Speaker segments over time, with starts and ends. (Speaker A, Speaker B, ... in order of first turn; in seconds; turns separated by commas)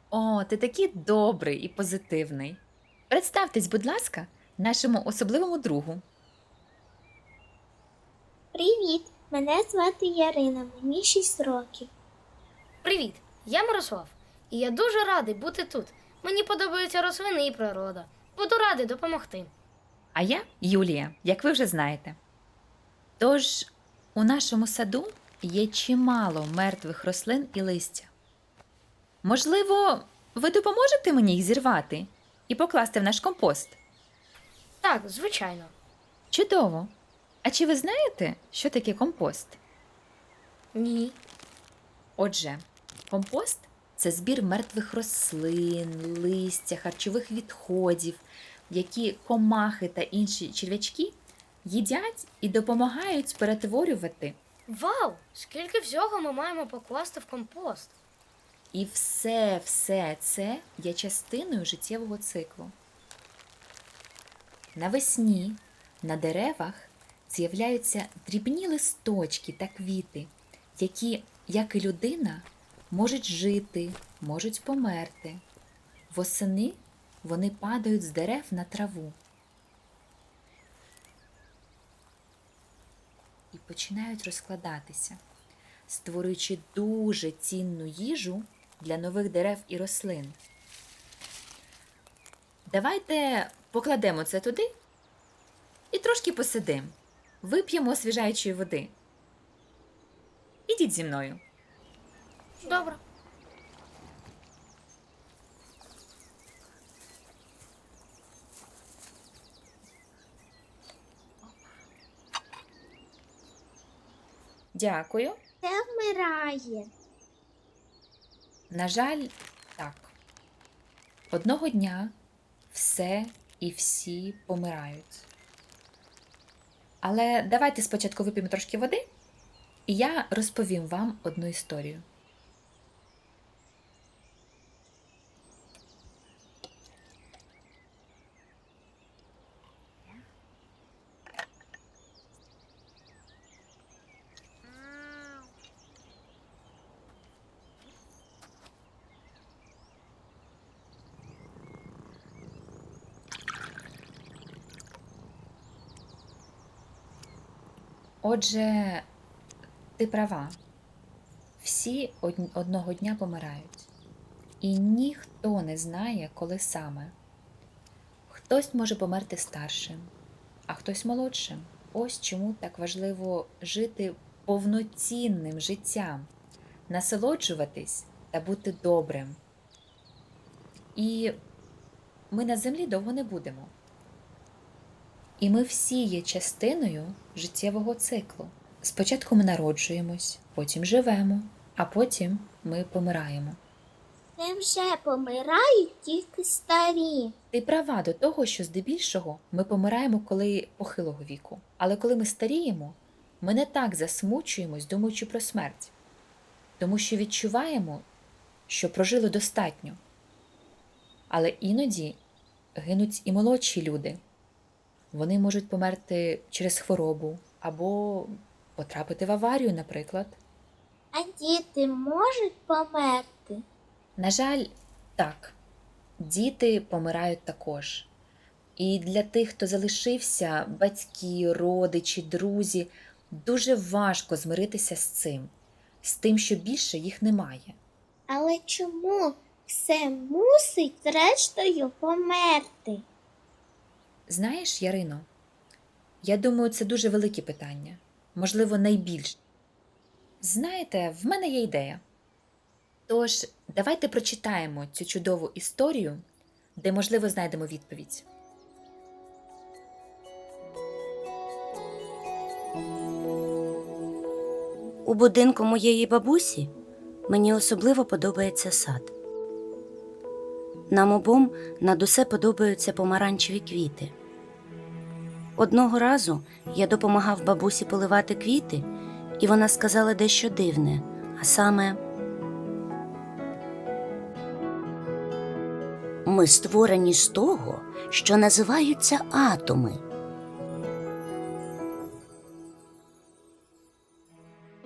Speaker A: 0.1-6.0, Speaker B: 8.5-11.9, Speaker C: 12.8-19.5, Speaker A: 20.1-22.2, Speaker A: 23.2-28.1, Speaker A: 29.2-33.8, Speaker C: 34.8-35.7, Speaker A: 36.3-36.9, Speaker A: 37.4-39.6, Speaker C: 40.8-41.2, Speaker A: 42.2-54.4, Speaker C: 54.7-58.0, Speaker A: 58.7-62.8, Speaker A: 64.8-75.4, Speaker A: 76.1-79.2, Speaker A: 83.5-85.2, Speaker A: 85.9-90.4, Speaker A: 92.7-94.7, Speaker A: 95.9-98.9, Speaker A: 100.7-101.4, Speaker C: 102.6-103.0, Speaker A: 114.7-115.4, Speaker B: 115.6-116.9, Speaker A: 118.7-120.1, Speaker A: 121.3-122.1, Speaker A: 122.7-125.3, Speaker A: 127.0-129.0, Speaker A: 129.9-132.1, Speaker A: 158.2-159.1, Speaker A: 160.0-160.6, Speaker A: 161.6-163.9, Speaker A: 164.6-167.2, Speaker A: 168.3-170.1, Speaker A: 170.7-176.3, Speaker A: 176.9-179.4, Speaker A: 180.9-181.4, Speaker A: 182.3-183.7, Speaker A: 185.4-193.6, Speaker B: 194.4-197.3, Speaker A: 197.5-205.9, Speaker A: 206.8-208.1, Speaker A: 208.7-210.0, Speaker A: 211.3-212.2, Speaker A: 212.8-214.2, Speaker A: 215.1-220.4, Speaker B: 221.1-223.6, Speaker A: 224.2-225.6, Speaker A: 226.2-228.1, Speaker A: 228.8-235.5, Speaker A: 236.0-237.8, Speaker B: 238.3-243.1, Speaker A: 244.3-245.3, Speaker A: 246.2-249.4, Speaker A: 250.4-252.0, Speaker A: 253.1-256.2, Speaker A: 256.8-258.2, Speaker D: 265.1-266.7, Speaker D: 267.3-269.1, Speaker D: 270.9-274.1, Speaker D: 275.6-282.0, Speaker D: 286.2-290.0